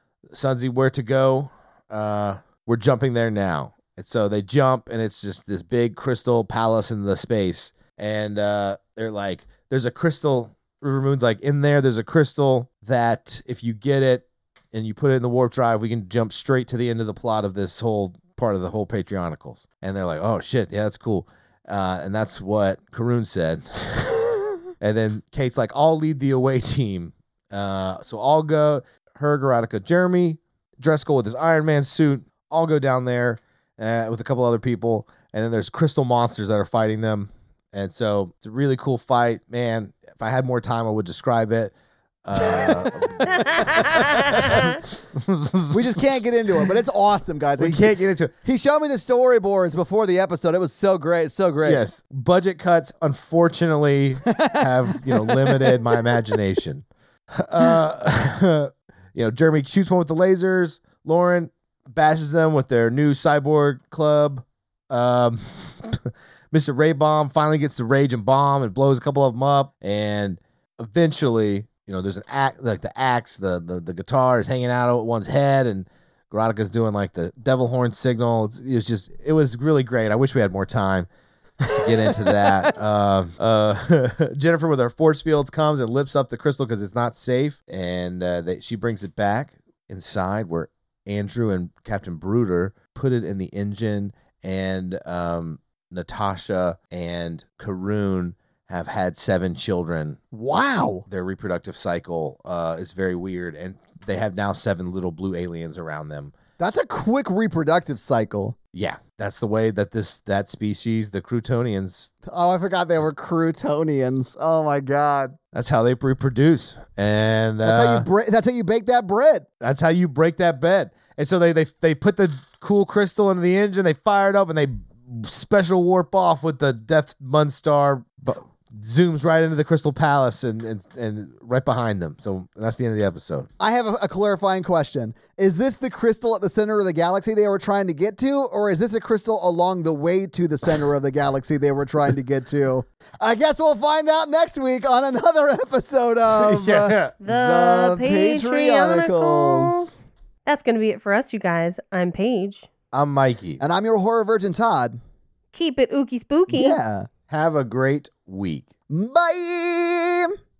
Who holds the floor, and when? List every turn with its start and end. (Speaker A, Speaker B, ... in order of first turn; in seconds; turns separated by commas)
Speaker A: 0.3-41.7, Speaker A: 42.2-45.7, Speaker B: 42.4-42.8, Speaker C: 43.5-44.8, Speaker B: 45.7-51.8, Speaker A: 47.6-48.3, Speaker A: 51.6-81.1, Speaker B: 54.2-56.2, Speaker A: 81.6-100.2, Speaker B: 100.3-101.0, Speaker A: 101.1-106.3, Speaker B: 106.6-108.5, Speaker A: 108.7-112.1, Speaker B: 112.2-115.3, Speaker A: 115.5-118.0, Speaker B: 117.6-119.5, Speaker A: 119.6-133.5, Speaker B: 133.6-149.9, Speaker A: 146.3-147.1, Speaker C: 147.2-152.7, Speaker A: 152.9-153.6, Speaker B: 153.6-155.0, Speaker C: 155.5-156.8, Speaker B: 156.5-157.1, Speaker A: 157.3-158.7, Speaker B: 158.9-160.3